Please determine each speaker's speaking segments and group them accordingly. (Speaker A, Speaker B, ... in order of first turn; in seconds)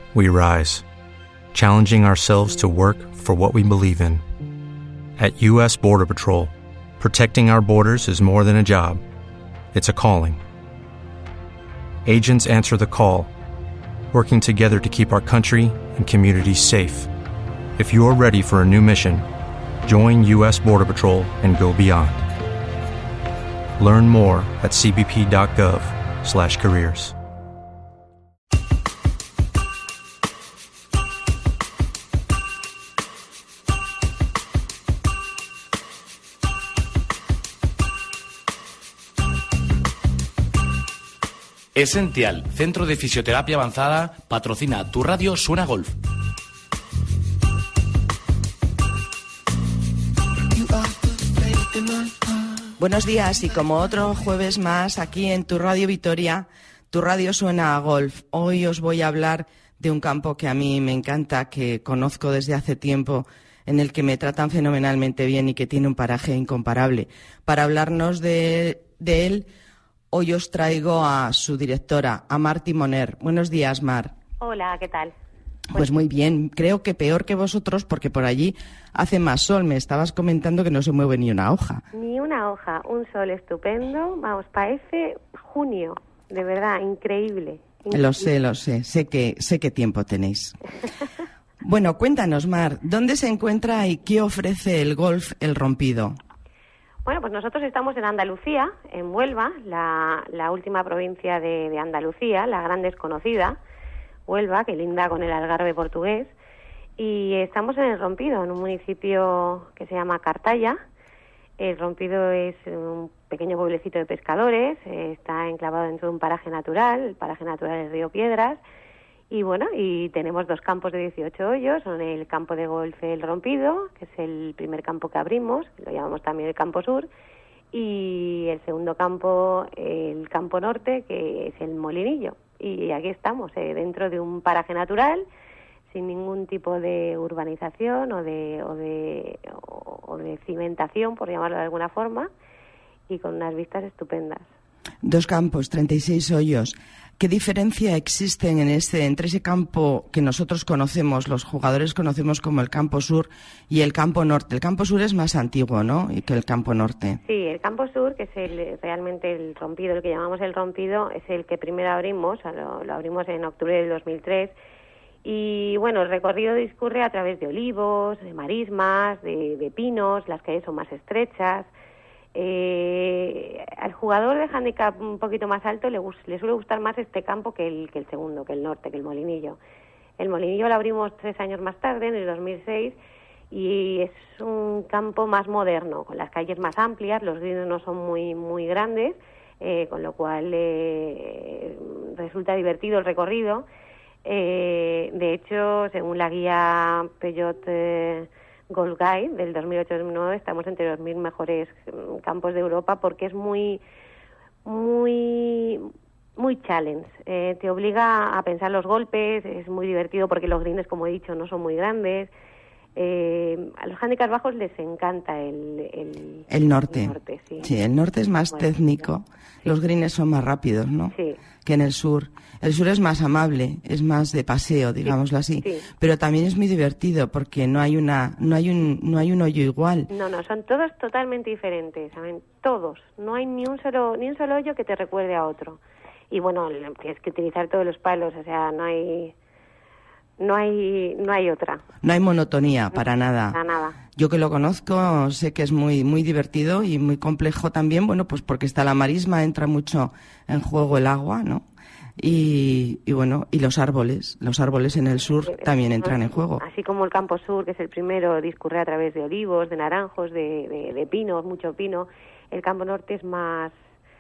Speaker A: 0.1-0.8, 1.5-4.2, 5.2-9.0, 9.7-10.4, 12.1-13.3, 14.1-17.1, 17.8-19.2, 19.9-22.2, 23.8-27.1
Speaker B: 41.8-46.0
Speaker C: 52.8-69.5, 70.1-74.1, 75.7-81.8, 87.9-90.6, 91.6-96.2, 145.0-157.2, 216.5-230.1, 242.0-243.6, 244.2-251.6, 252.2-256.6
Speaker D: 74.4-75.1, 81.9-88.3, 97.0-103.6, 104.3-106.3, 107.0-110.8, 111.6-118.6, 119.3-127.1, 127.7-135.2, 135.9-142.3, 143.1-144.5, 157.2-164.6, 165.2-171.7, 172.3-179.6, 180.2-183.0, 183.5-193.7, 194.2-203.8, 204.7-212.3, 212.9-217.7, 221.1-221.4, 225.6-225.9, 230.1-239.3, 240.4-241.8, 243.5-244.0, 255.4-263.8